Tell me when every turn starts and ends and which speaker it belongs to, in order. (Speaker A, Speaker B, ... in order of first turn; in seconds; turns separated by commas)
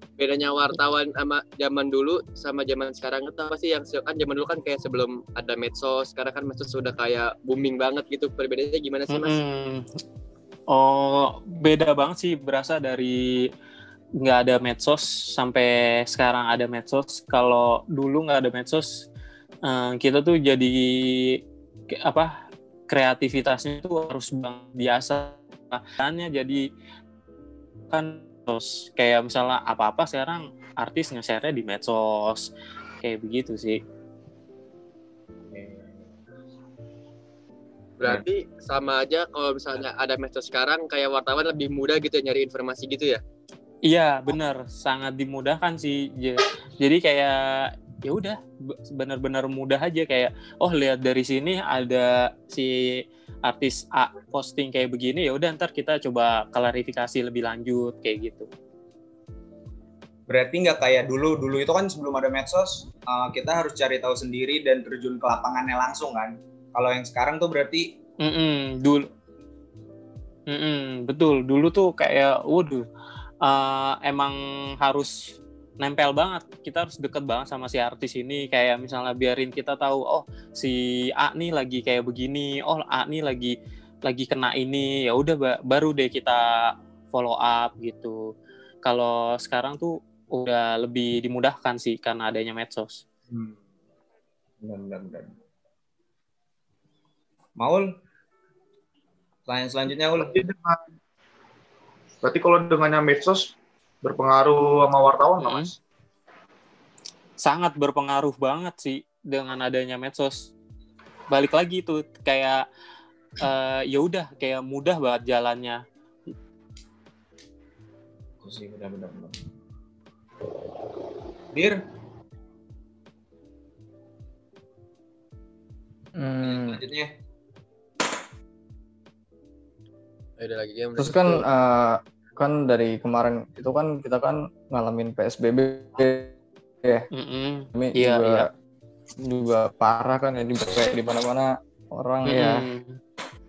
Speaker A: 0.2-9.4, Speaker B: 9.1-9.9, Speaker B: 10.7-13.5, Speaker B: 14.2-19.1, Speaker B: 19.6-21.4, Speaker B: 21.9-22.4, Speaker B: 22.9-26.7, Speaker B: 27.9-32.5, Speaker B: 33.0-33.8, Speaker C: 35.5-36.1, Speaker A: 38.0-43.2, Speaker B: 43.9-58.5, Speaker C: 60.3-68.0, Speaker B: 68.2-69.1, Speaker B: 70.5-72.8, Speaker B: 73.4-75.1, Speaker B: 75.8-83.5, Speaker B: 84.1-88.3, Speaker B: 88.8-93.0, Speaker C: 93.3-93.6, Speaker C: 94.6-95.3, Speaker C: 97.6-97.9, Speaker C: 99.5-100.3, Speaker D: 100.2-100.8, Speaker D: 102.2-105.8, Speaker B: 105.4-105.7, Speaker B: 107.4-110.5, Speaker B: 111.3-112.7, Speaker B: 113.4-115.8, Speaker C: 118.4-119.5, Speaker C: 121.5-121.8, Speaker E: 126.2-126.8, Speaker C: 126.4-127.1, Speaker A: 130.4-131.4, Speaker E: 131.0-136.3, Speaker B: 137.1-138.5, Speaker E: 137.7-138.5, Speaker E: 139.2-142.7, Speaker B: 142.2-143.0